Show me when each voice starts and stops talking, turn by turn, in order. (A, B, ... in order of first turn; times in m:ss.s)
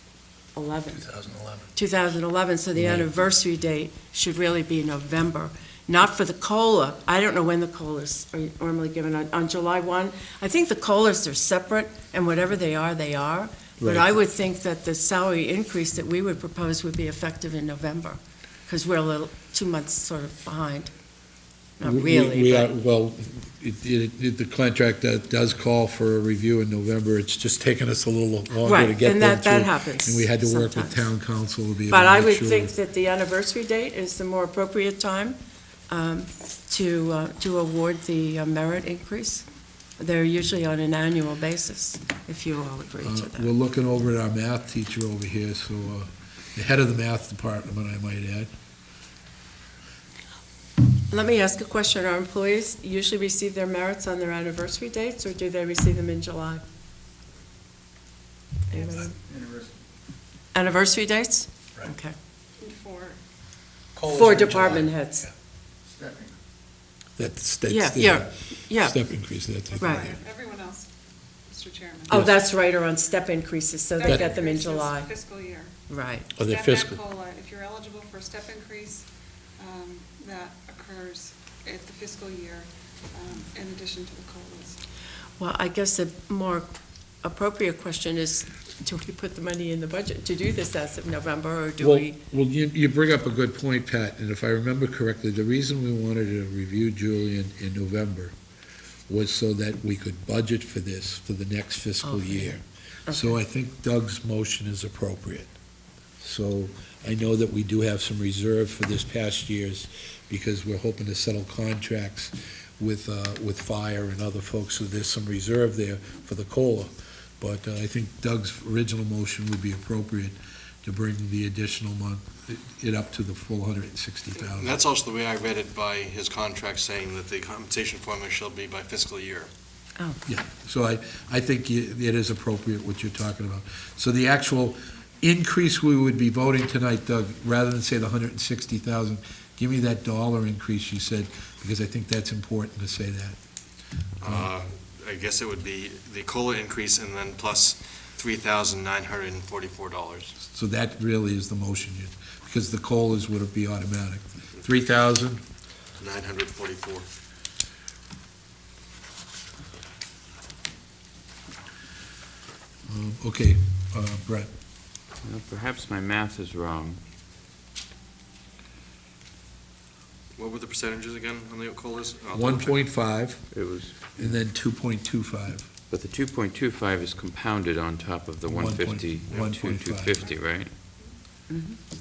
0:00.6-0:01.1 A
0:01.1-0:01.7 B
0:01.8-0:20.9 A
0:02.8-0:03.1 B
0:13.8-0:14.2 B
0:21.8-0:22.7 A
0:21.8-0:32.7 B
0:28.6-0:31.1 A
0:31.9-0:35.4 A
0:35.9-0:39.4 A
0:40.0-0:43.5 A
0:43.0-0:48.5 B
0:51.1-0:56.6 A
0:58.7-0:59.2 A
1:00.5-1:02.2 A
1:02.6-1:03.2 C
1:04.0-1:04.9 B
1:04.1-1:05.3 A
1:07.2-1:10.2 B
1:07.7-1:09.0 A
1:09.8-1:10.2 A
1:09.8-1:10.1 D
1:10.1-1:10.9 C
1:11.5-1:12.2 C
1:12.1-1:15.1 A
1:12.1-1:12.5 B
1:14.0-1:19.0 C
1:15.9-1:16.3 A
1:16.4-1:17.0 B
1:19.6-1:24.8 C
1:25.4-1:26.7 A
1:27.2-1:32.2 A
1:31.8-1:38.3 B
1:39.1-1:45.5 B
1:42.0-1:43.4 A
1:46.2-2:04.8 B
2:04.4-2:09.5 D
2:10.2-2:23.4 B
2:24.2-2:30.4 D
2:24.2-2:24.5 B
2:30.4-2:35.4 B
2:36.0-2:37.1 D
2:42.9-2:44.5 B
2:45.2-2:47.0 E
2:50.4-2:52.8 D
2:52.3-2:53.4 B
2:53.5-2:54.4 E
2:54.1-2:55.7 B
2:55.9-3:00.7 E
2:58.5-3:00.2 B
3:01.5-3:01.8 A